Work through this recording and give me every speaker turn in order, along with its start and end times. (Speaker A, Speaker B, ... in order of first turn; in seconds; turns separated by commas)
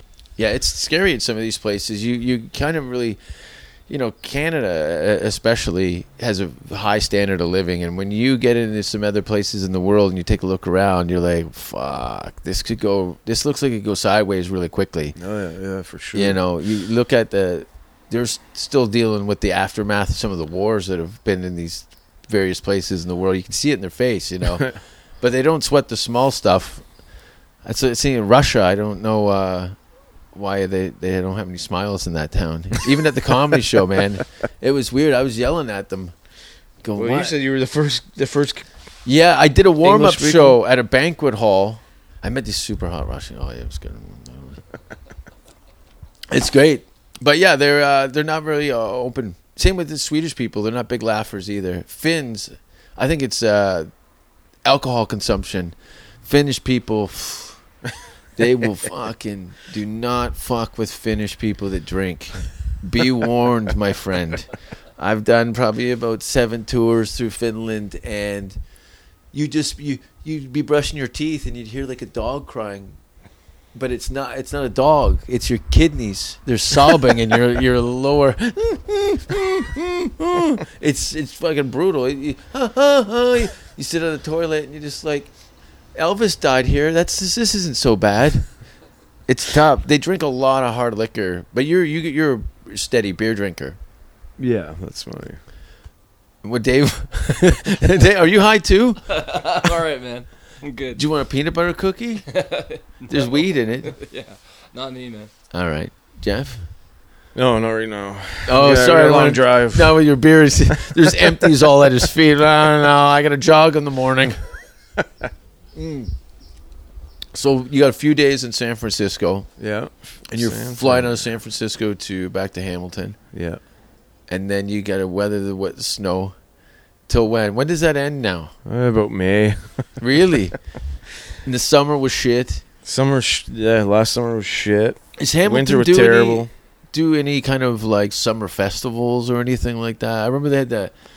Speaker A: 0.4-3.2, Speaker A: 3.9-15.2, Speaker B: 15.2-16.4, Speaker A: 16.1-24.7, Speaker A: 25.2-26.8, Speaker A: 27.6-29.7, Speaker A: 30.3-36.1, Speaker A: 36.8-37.4, Speaker B: 36.9-38.6, Speaker A: 39.0-44.6, Speaker B: 39.8-40.6, Speaker A: 46.3-53.9, Speaker A: 54.6-57.6, Speaker A: 58.4-68.6, Speaker A: 69.3-73.0, Speaker A: 73.7-85.3, Speaker A: 86.0-88.5, Speaker A: 89.3-93.8, Speaker B: 94.4-95.4, Speaker A: 96.4-99.2, Speaker C: 99.1-101.0, Speaker A: 100.9-102.2, Speaker C: 102.3-105.3, Speaker A: 103.1-103.9, Speaker A: 105.5-106.6, Speaker B: 107.3-110.0, Speaker A: 108.5-114.4, Speaker B: 110.7-111.5, Speaker A: 115.7-116.1, Speaker A: 117.3-119.5, Speaker B: 119.6-121.2, Speaker A: 120.3-123.2, Speaker B: 123.3-123.6, Speaker A: 124.3-126.3, Speaker A: 127.1-128.5, Speaker B: 128.7-130.0, Speaker A: 130.0-130.6, Speaker A: 131.4-132.6, Speaker B: 132.8-136.5, Speaker A: 135.2-140.9